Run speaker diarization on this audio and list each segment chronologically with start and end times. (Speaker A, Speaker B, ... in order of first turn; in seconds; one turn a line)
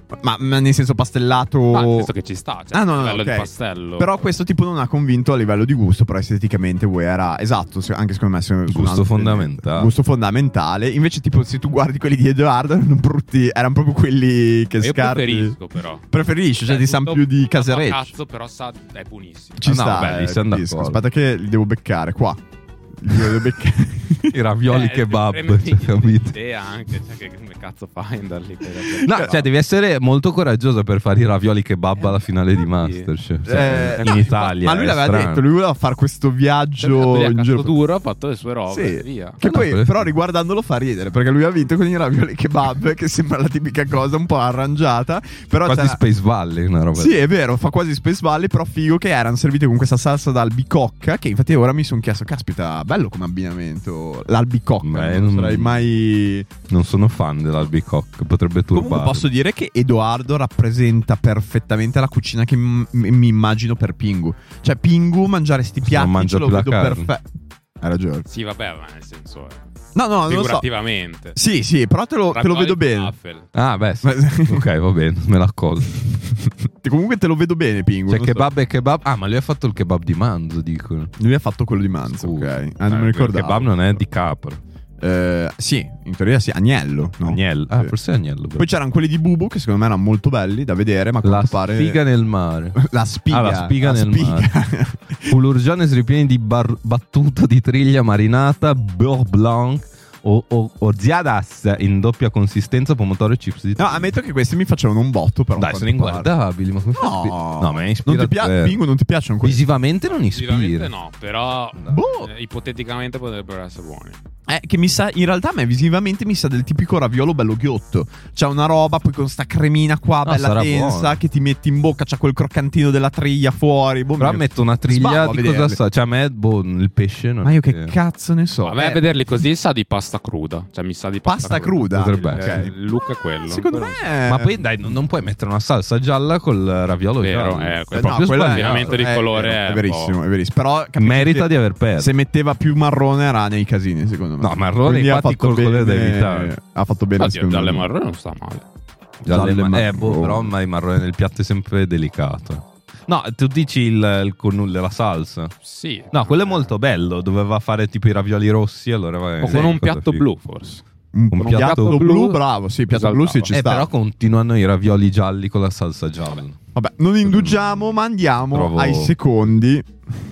Speaker A: 0.2-2.1
Speaker B: 1.7-4.2
Speaker A: 2.7-15.6
Speaker C: 8.7-9.9
Speaker B: 14.8-16.1
Speaker A: 16.1-18.1
Speaker B: 16.6-19.6
Speaker A: 19.6-22.4
Speaker C: 19.6-21.0
Speaker A: 23.0-24.4
Speaker C: 23.1-23.4
Speaker C: 24.3-26.4
Speaker B: 24.7-29.4
Speaker A: 29.0-29.4
Speaker C: 29.0-35.4
Speaker B: 32.0-34.5
Speaker A: 33.5-37.7
Speaker B: 36.8-39.4
Speaker A: 38.7-46.0
Speaker C: 39.4-40.1
Speaker C: 45.6-47.2
Speaker A: 47.0-56.5
Speaker C: 54.8-55.8
Speaker C: 56.7-59.3
Speaker A: 58.7-67.2
Speaker C: 65.8-67.1
Speaker A: 67.8-68.3
Speaker B: 68.3-69.6
Speaker A: 70.0-70.7
Speaker B: 70.3-71.4
Speaker A: 71.3-73.1
Speaker B: 72.3-73.5
Speaker C: 73.5-76.0
Speaker A: 74.0-74.7
Speaker A: 76.8-78.5
Speaker C: 78.1-81.1
Speaker A: 81.2-83.7
Speaker C: 82.1-84.6
Speaker A: 85.0-87.9
Speaker C: 87.2-88.7
Speaker A: 88.6-92.0
Speaker C: 91.2-94.5
Speaker A: 92.8-95.4
Speaker C: 95.3-104.2
Speaker A: 103.8-106.3
Speaker C: 105.6-108.8
Speaker A: 107.0-109.6
Speaker C: 109.4-110.9
Speaker B: 110.2-114.2
Speaker A: 111.9-112.3
Speaker A: 114.5-125.8
Speaker C: 120.2-121.2
Speaker C: 124.2-128.0
Speaker A: 127.4-129.0
Speaker B: 128.7-134.1
Speaker A: 131.2-132.7
Speaker C: 131.9-132.7
Speaker A: 133.5-134.5
Speaker C: 134.3-139.1
Speaker B: 137.2-140.2
Speaker A: 137.9-147.9
Speaker C: 141.0-142.1
Speaker C: 144.4-146.5
Speaker B: 147.2-148.7
Speaker C: 149.2-155.5
Speaker A: 149.3-150.5
Speaker B: 155.6-156.7
Speaker C: 156.1-160.2
Speaker B: 159.4-160.8
Speaker A: 161.1-163.9
Speaker C: 161.3-162.1
Speaker B: 161.4-163.6
Speaker C: 163.5-166.6
Speaker A: 166.8-169.9
Speaker C: 167.2-167.6
Speaker C: 168.5-169.2